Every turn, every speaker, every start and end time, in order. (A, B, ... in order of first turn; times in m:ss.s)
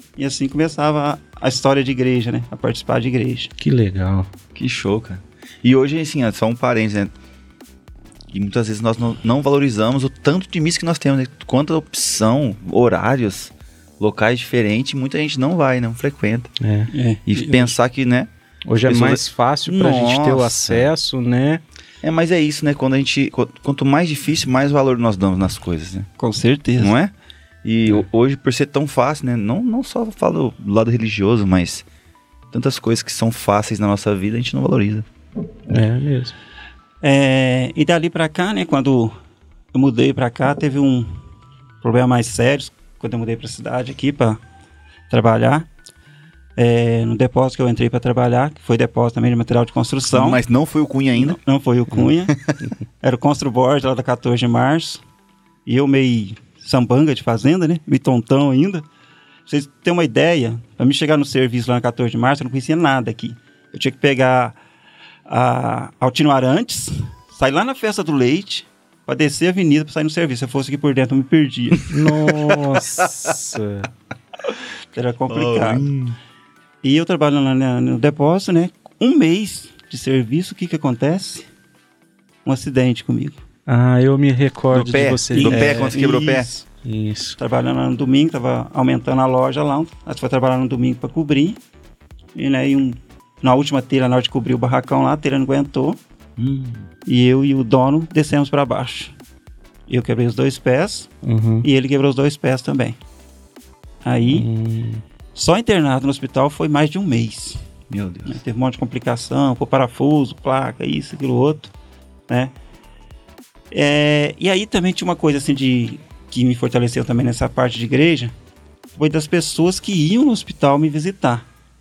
0:00.2-0:03.5 A
0:03.6-0:04.3 B
0:04.5-0:07.1 C
0:08.3-0:16.5 C
0:16.6-0:16.9 B
0:16.9-0:17.7 A
0:17.3-0:18.3 C
0:18.6-0:21.6 B
0:18.8-0:20.9 C
0:22.0-0:26.1 C
0:26.2-0:27.0 A
0:26.8-0:27.1 C
0:27.6-0:31.8 C
0:32.5-0:35.0 C
0:35.7-0:36.3 B
0:37.0-0:39.1 A
0:39.7-0:41.1 A
0:41.8-0:44.4 A
0:45.1-0:45.7 A
0:46.6-0:50.4 A
0:50.1-0:51.4 C
0:51.2-0:52.3 A
0:52.1-0:52.6 C
0:53.0-0:55.0 A
0:55.6-0:58.8 A
0:59.5-1:04.6 A
1:05.3-1:11.9 A
1:11.9-1:13.9 B
1:12.1-1:13.3 C
1:14.9-1:15.9 A
1:15.3-1:16.1 C
1:16.8-1:21.5 A
1:22.4-1:23.4 A
1:23.7-1:25.9 B
1:24.7-1:26.5 C
1:25.3-1:26.7 A
1:26.8-1:27.4 B
1:27.4-1:31.6 A
1:32.4-1:36.0 A
1:36.4-1:36.9 C
1:37.0-1:39.1 A
1:39.9-1:41.1 A
1:41.2-1:41.6 B
1:41.6-1:43.0 A
1:44.0-1:44.5 A
1:44.3-1:45.0 B
1:45.3-1:47.6 A
1:47.9-1:48.4 C
1:48.2-1:51.7 A
1:53.7-1:58.3 A
1:59.0-2:01.4 A